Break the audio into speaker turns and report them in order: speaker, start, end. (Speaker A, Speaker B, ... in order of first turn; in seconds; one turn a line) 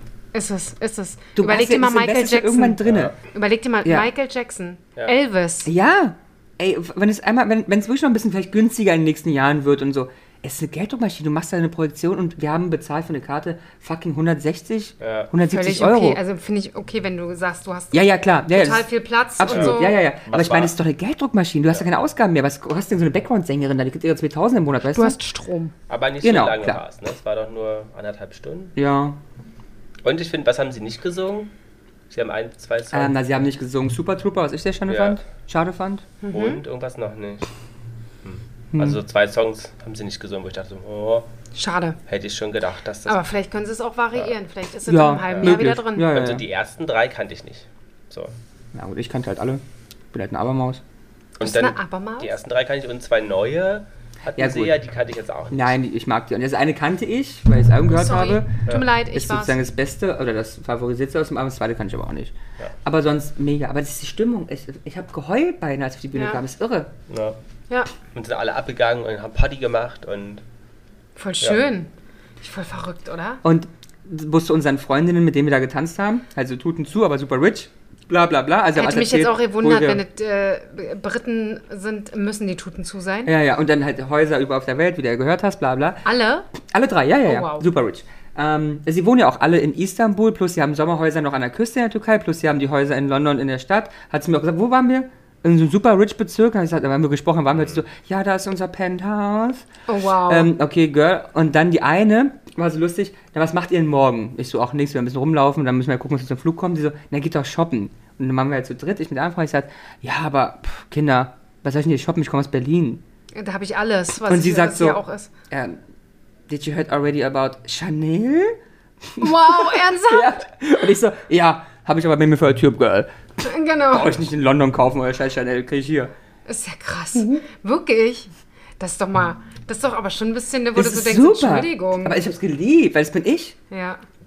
Speaker A: 0.3-2.8
Speaker B: 1.4-3.1
Speaker C: 2.8-3.2
Speaker A: 3.3-5.7
Speaker B: 3.9-4.1
Speaker B: 5.7-16.2
Speaker C: 15.0-15.3
Speaker A: 15.5-20.0
Speaker B: 17.9-25.2
Speaker C: 19.5-20.8
Speaker A: 24.9-25.7
Speaker C: 25.9-28.8
Speaker B: 26.2-26.8
Speaker B: 28.8-29.2
Speaker C: 30.0-31.5
Speaker C: 32.1-33.2
Speaker B: 32.9-36.1
Speaker C: 34.9-35.2
Speaker A: 36.2-36.6
Speaker C: 36.3-37.5
Speaker C: 38.2-41.3
Speaker B: 38.7-39.0
Speaker A: 41.5-42.0
Speaker C: 42.1-43.2
Speaker A: 43.1-46.1
Speaker B: 44.9-46.5
Speaker C: 45.3-48.3
Speaker B: 48.7-50.8
Speaker A: 51.4-52.3
Speaker C: 51.4-55.8
Speaker B: 54.4-54.8
Speaker B: 55.5-66.9
Speaker A: 57.9-59.6
Speaker A: 66.2-66.4
Speaker C: 67.1-67.4
Speaker C: 68.1-70.4
Speaker A: 71.2-73.4
Speaker B: 73.4-80.0
Speaker A: 78.8-83.3
Speaker B: 83.3-86.0
Speaker A: 86.0-86.5
Speaker B: 86.6-99.7
Speaker A: 87.3-87.7
Speaker A: 99.9-100.5
Speaker B: 100.2-113.0
Speaker A: 113.3-115.3
Speaker B: 114.3-115.8
Speaker B: 116.5-123.1
Speaker A: 119.2-120.4
Speaker A: 123.4-124.1
Speaker B: 123.9-126.1
Speaker A: 126.5-132.2
Speaker B: 127.2-127.4
Speaker B: 130.8-133.6
Speaker A: 133.7-134.0